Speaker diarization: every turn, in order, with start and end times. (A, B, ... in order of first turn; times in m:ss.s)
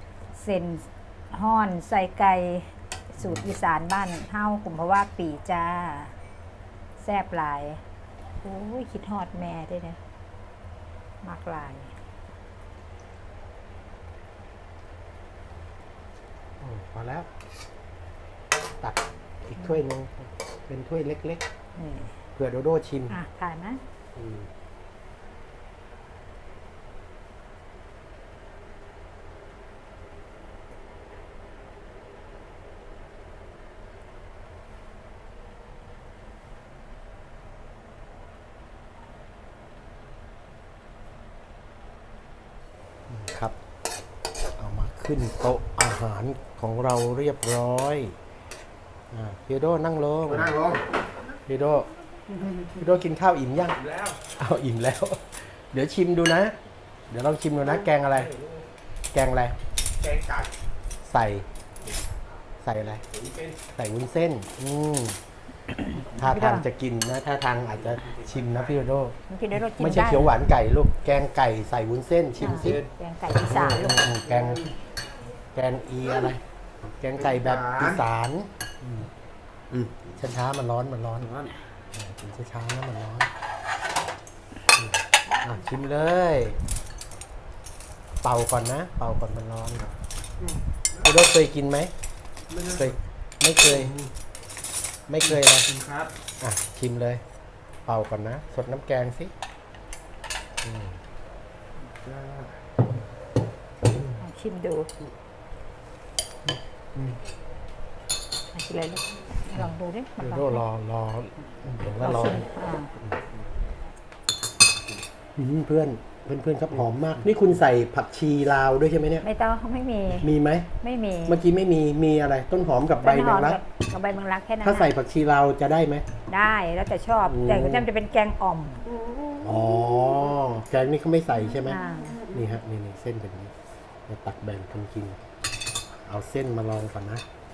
0:00.3-0:06.2 A
0:03.2-0:03.5 B
0:07.0-0:07.8 A
0:08.4-0:10.0 A
0:11.2-0:11.9 A
0:16.6-0:17.3 B
0:18.8-0:21.4 B
0:21.8-0:22.2 A
0:22.4-0:23.2 B
0:23.1-0:23.8 A
0:24.2-0:24.5 B
0:43.1-0:43.6 B
0:44.6-0:48.2 B
0:49.1-0:50.6 B
0:50.3-0:50.9 C
0:51.5-0:51.9 B
0:52.4-0:52.6 C
0:52.8-0:56.6 B
0:53.8-0:54.2 C
0:57.1-0:58.3 B
0:58.2-0:58.6 C
0:59.1-0:59.6 B
1:00.0-1:00.5 C
1:01.0-1:01.5 B
1:02.6-1:03.0 B
1:03.1-1:03.6 C
1:03.6-1:05.2 B
1:06.0-1:06.7 A
1:06.1-1:14.7 B
1:07.9-1:08.7 C
1:09.3-1:10.3 A
1:12.4-1:14.1 A
1:12.5-1:12.9 C
1:14.3-1:14.6 C
1:15.6-1:16.4 B
1:17.0-1:19.1 B
1:17.2-1:18.0 C
1:20.0-1:21.3 B
1:21.2-1:21.5 C
1:21.9-1:23.3 B
1:24.8-1:26.6 B
1:28.2-1:29.9 B
1:30.4-1:31.0 C
1:31.0-1:31.9 B
1:32.5-1:32.9 C
1:32.7-1:33.9 B
1:33.7-1:34.1 C
1:35.1-1:35.7 B
1:35.2-1:36.1 C
1:36.4-1:37.2 B
1:37.9-1:39.3 B
1:40.6-1:41.0 B
1:42.0-1:42.5 C
1:44.2-1:44.9 A
1:48.5-1:50.6 A
1:50.2-1:52.5 B
1:52.0-1:52.9 A
1:55.4-1:59.3 B
1:59.2-2:00.3 A
2:00.2-2:00.7 B
2:00.8-2:01.4 A
2:01.3-2:03.6 B
2:03.0-2:04.9 A
2:04.6-2:06.1 B
2:06.3-2:08.9 A
2:07.3-2:07.9 B
2:09.4-2:13.5 B
2:11.6-2:12.2 A
2:14.1-2:15.2 B
2:16.1-2:17.2 B